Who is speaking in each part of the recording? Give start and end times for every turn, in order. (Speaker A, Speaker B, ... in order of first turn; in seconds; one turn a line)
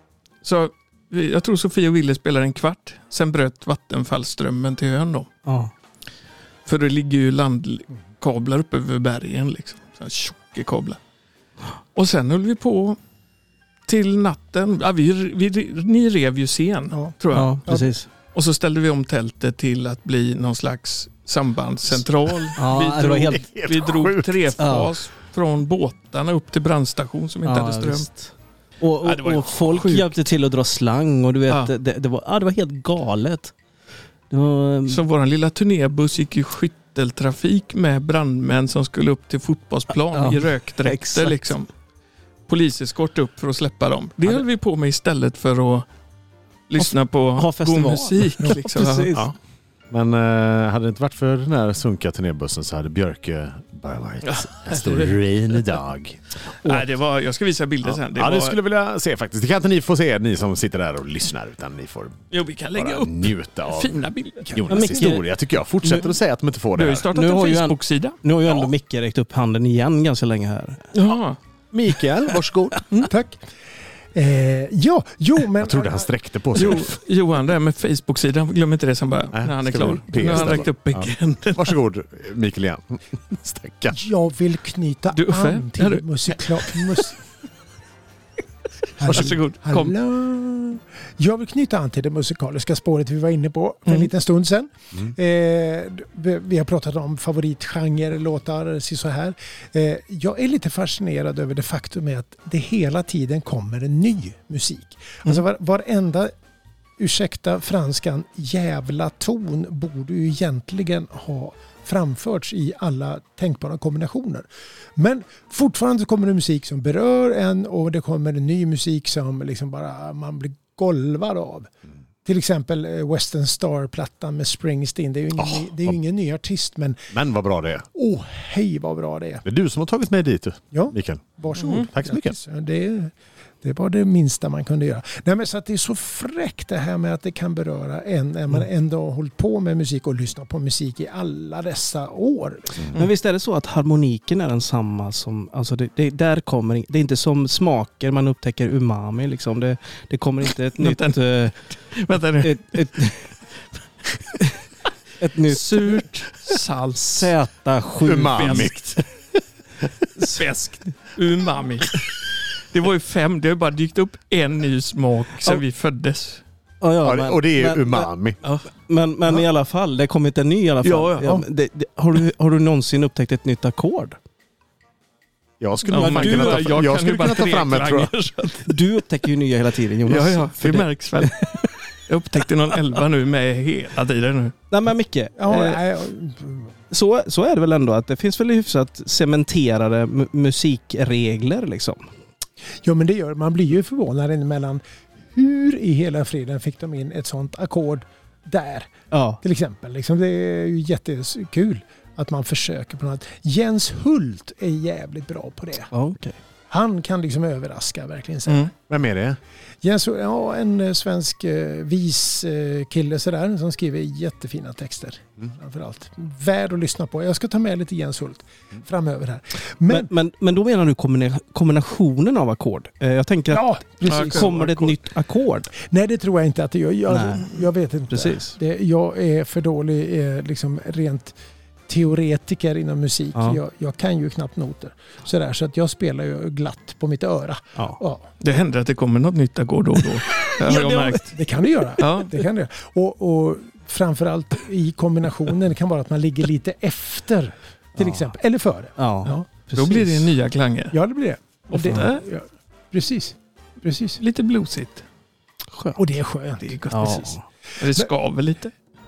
Speaker A: 0.4-5.3
Speaker B: 5.5-5.7
Speaker A: 6.7-11.0
Speaker A: 11.9-13.0
Speaker A: 13.9-17.8
Speaker B: 17.3-18.1
Speaker A: 18.3-28.1
Speaker B: 22.6-23.4
Speaker C: 23.3-24.5
Speaker B: 24.6-25.0
Speaker B: 27.4-33.5
Speaker A: 29.0-30.1
Speaker B: 34.3-35.0
Speaker A: 34.9-41.7
Speaker B: 40.1-41.5
Speaker A: 42.5-45.9
Speaker A: 46.7-49.3
Speaker B: 46.8-49.3
Speaker C: 49.9-56.8
Speaker A: 54.2-55.6
Speaker A: 56.6-58.6
Speaker C: 57.8-62.2
Speaker A: 62.3-65.0
Speaker C: 62.8-67.1
Speaker B: 64.7-65.3
Speaker A: 66.8-68.7
Speaker B: 67.1-70.9
Speaker A: 70.9-71.4
Speaker C: 71.7-72.9
Speaker D: 73.1-73.4
Speaker D: 74.1-76.1
Speaker C: 75.6-77.0
Speaker A: 76.5-81.8
Speaker C: 79.3-84.0
Speaker D: 83.9-87.2
Speaker A: 85.1-87.1
Speaker D: 89.0-106.3
Speaker A: 89.0-89.9
Speaker D: 107.0-121.7
Speaker D: 122.2-127.0
Speaker C: 125.4-126.0
Speaker C: 127.1-127.9
Speaker D: 127.9-129.4
Speaker C: 129.4-132.3
Speaker D: 130.7-142.8
Speaker A: 131.6-131.9
Speaker B: 142.9-151.6
Speaker A: 150.8-153.1
Speaker B: 152.4-153.4
Speaker B: 155.2-156.1
Speaker A: 155.5-157.3
Speaker B: 156.9-158.7
Speaker C: 158.0-159.0
Speaker A: 158.3-159.0
Speaker B: 160.2-160.4
Speaker A: 160.2-166.4
Speaker B: 166.8-168.1
Speaker C: 167.0-168.4
Speaker B: 168.8-174.2
Speaker A: 170.8-171.4
Speaker C: 175.6-178.1
Speaker A: 175.9-178.8
Speaker B: 175.9-176.9
Speaker B: 178.7-181.5
Speaker A: 180.1-184.6
Speaker B: 184.7-185.8
Speaker D: 185.4-186.7
Speaker B: 186.9-192.1
Speaker D: 192.8-194.8
Speaker D: 195.3-205.9
Speaker B: 199.1-199.4
Speaker B: 205.9-206.4
Speaker D: 206.7-208.7
Speaker C: 208.9-209.4
Speaker D: 209.8-220.1
Speaker B: 219.9-225.7
Speaker D: 223.5-224.6
Speaker A: 224.1-225.0
Speaker D: 225.8-231.3
Speaker B: 227.1-228.6
Speaker D: 231.9-238.2
Speaker B: 233.3-233.6
Speaker A: 238.4-241.4
Speaker B: 240.4-241.3
Speaker D: 241.3-249.5
Speaker A: 242.0-242.3
Speaker B: 248.0-248.3
Speaker B: 249.0-250.3
Speaker A: 249.7-250.9
Speaker D: 250.9-254.2
Speaker A: 251.7-252.2
Speaker A: 254.2-255.0
Speaker D: 256.0-257.3
Speaker A: 256.6-257.3
Speaker B: 256.9-257.4
Speaker A: 257.8-258.7